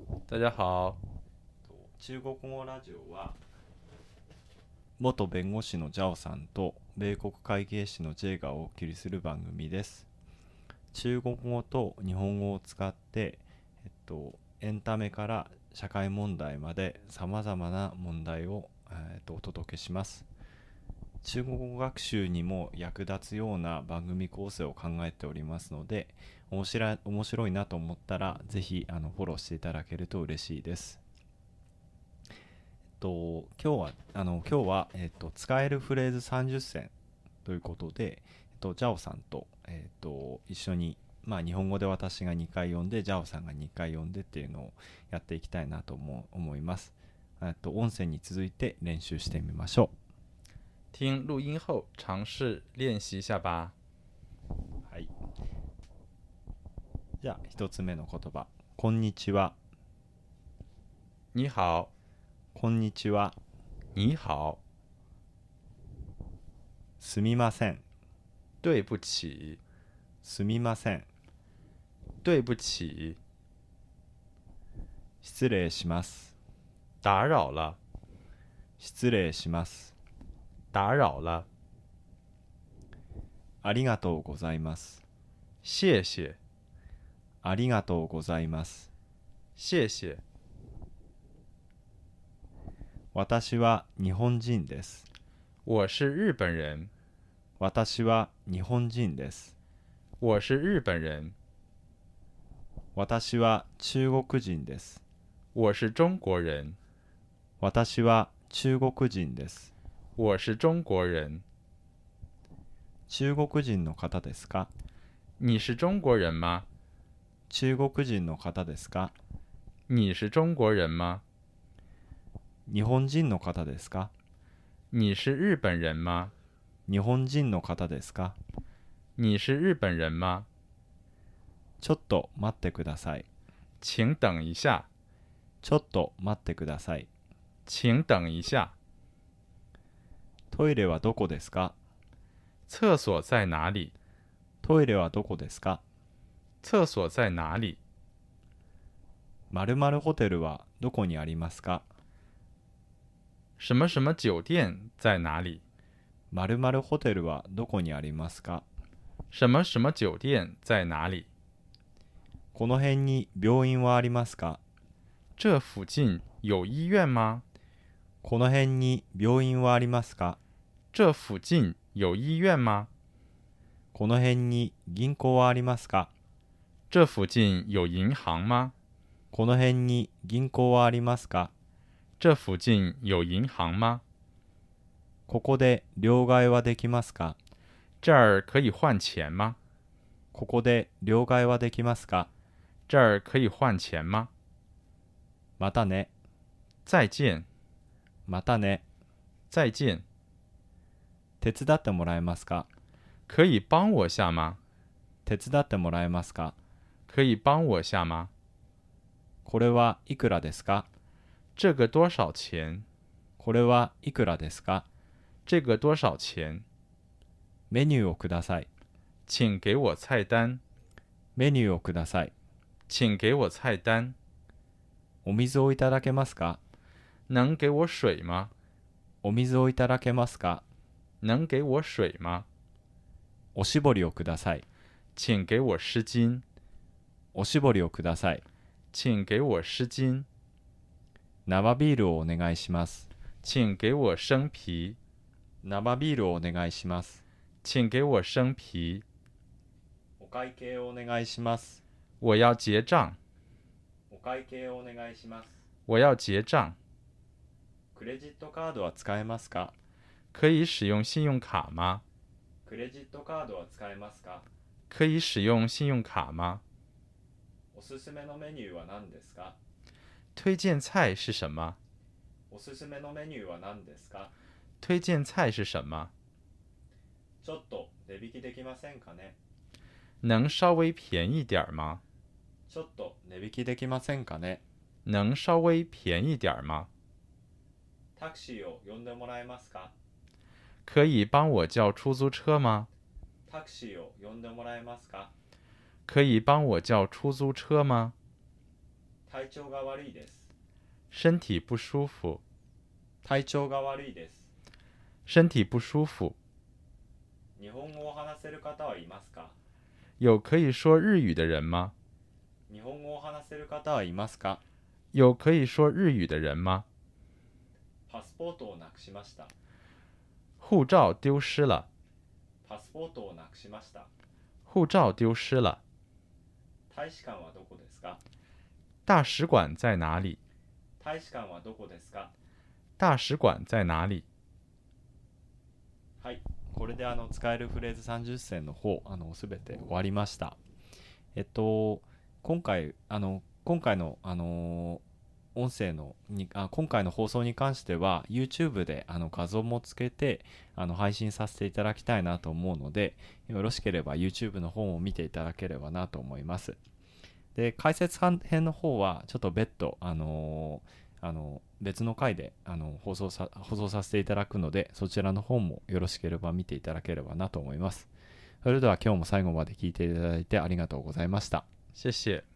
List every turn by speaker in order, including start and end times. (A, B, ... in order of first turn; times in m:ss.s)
0:00.3-0:01.0 A
0:01.7-0:03.4 B
0:05.0-0:10.1 B
0:10.9-0:20.3 B
0:21.2-0:31.0 B
0:33.0-0:36.9 B
0:37.4-0:49.9 B
0:50.9-0:53.7 A
0:57.2-0:59.6 B
1:01.3-1:01.9 A
1:02.5-1:03.4 B
1:04.0-1:04.6 A
1:07.0-1:07.8 B
1:08.6-1:09.6 A
1:10.2-1:11.1 B
1:12.2-1:13.2 A
1:15.2-1:16.3 B
1:17.0-1:17.8 A
1:18.8-1:19.9 B
1:20.7-1:21.5 A
1:23.6-1:25.0 B
1:25.6-1:26.4 A
1:27.4-1:28.9 B
1:29.6-1:30.2 A
1:33.1-1:35.1 B
1:35.7-1:36.9 A
1:37.6-1:39.5 B
1:40.2-1:41.4 A
1:43.0-1:45.0 B
1:45.6-1:46.8 A
1:47.6-1:49.7 B
1:50.2-1:51.4 A
1:53.1-1:54.7 B
1:55.4-1:56.7 A
1:57.5-1:59.2 B
1:59.9-2:01.2 A
2:02.7-2:04.1 B
2:04.9-2:06.3 A
2:06.9-2:08.4 B
2:09.2-2:10.5 A
2:11.8-2:13.3 B
2:13.8-2:14.9 A
2:15.6-2:17.1 B
2:17.7-2:18.8 A
2:20.5-2:21.8 B
2:22.7-2:23.9 A
2:24.6-2:25.8 B
2:26.6-2:27.8 A
2:29.5-2:31.8 B
2:33.6-2:35.6 A
2:36.3-2:38.6 B
2:39.3-2:41.3 A
2:42.5-2:44.6 B
2:45.4-2:47.4 A
2:48.2-2:50.4 B
2:50.9-2:52.9 A
2:53.9-2:56.1 B
2:56.9-2:58.7 A
2:59.3-3:01.5 B
3:02.2-3:04.0 A
3:05.3-3:07.4 B
3:08.0-3:09.6 A
3:10.3-3:12.3 B
3:12.9-3:14.3 A
3:15.6-3:16.1 B
3:16.9-3:17.5 A
3:18.3-3:18.8 B
3:19.5-3:20.0 A
3:21.4-3:22.7 B
3:23.3-3:24.6 A
3:25.2-3:26.6 B
3:27.1-3:28.3 A
3:29.4-3:30.9 B
3:31.6-3:32.9 A
3:33.4-3:34.8 B
3:35.5-3:36.6 A
3:37.7-3:38.7 B
3:39.3-3:40.6 A
3:41.4-3:42.3 B
3:42.9-3:44.2 A
3:45.2-3:46.6 B
3:47.3-3:48.5 A
3:49.2-3:50.6 B
3:51.2-3:52.5 A
3:53.6-3:54.6 B
3:55.2-3:56.4 A
3:57.3-3:58.4 B
3:58.9-4:00.3 A
4:01.5-4:03.1 B
4:03.4-4:05.0 A
4:05.6-4:07.2 B
4:07.6-4:09.0 A
4:10.2-4:11.8 B
4:12.2-4:13.2 A
4:14.1-4:15.6 B
4:15.9-4:16.8 A
4:17.9-4:19.7 B
4:20.3-4:22.0 A
4:22.6-4:24.5 B
4:24.9-4:26.6 A
4:27.7-4:29.6 B
4:30.4-4:31.8 A
4:32.5-4:34.3 B
4:34.8-4:36.1 A
4:37.4-4:39.4 B
4:40.2-4:42.0 A
4:42.7-4:44.6 B
4:45.0-4:46.9 A
4:48.2-4:49.9 B
4:50.8-4:52.9 A
4:53.5-4:55.3 B
4:56.1-4:58.1 A
4:59.3-5:00.5 B
5:01.1-5:02.4 A
5:03.2-5:04.5 B
5:05.3-5:06.4 A
5:07.6-5:09.6 B
5:10.2-5:11.9 A
5:12.7-5:14.6 B
5:15.1-5:16.9 A
5:18.1-5:19.5 B
5:20.6-5:21.9 A
5:22.6-5:24.1 B
5:24.7-5:25.8 A
5:26.9-5:28.2 B
5:29.1-5:30.4 A
5:31.0-5:32.3 B
5:33.0-5:34.2 A
5:36.2-5:40.6 B
5:41.4-5:45.0 B
5:45.6-5:56.8 B
5:57.6-6:08.1 B
6:08.6-6:11.7 B
6:12.0-6:12.4 A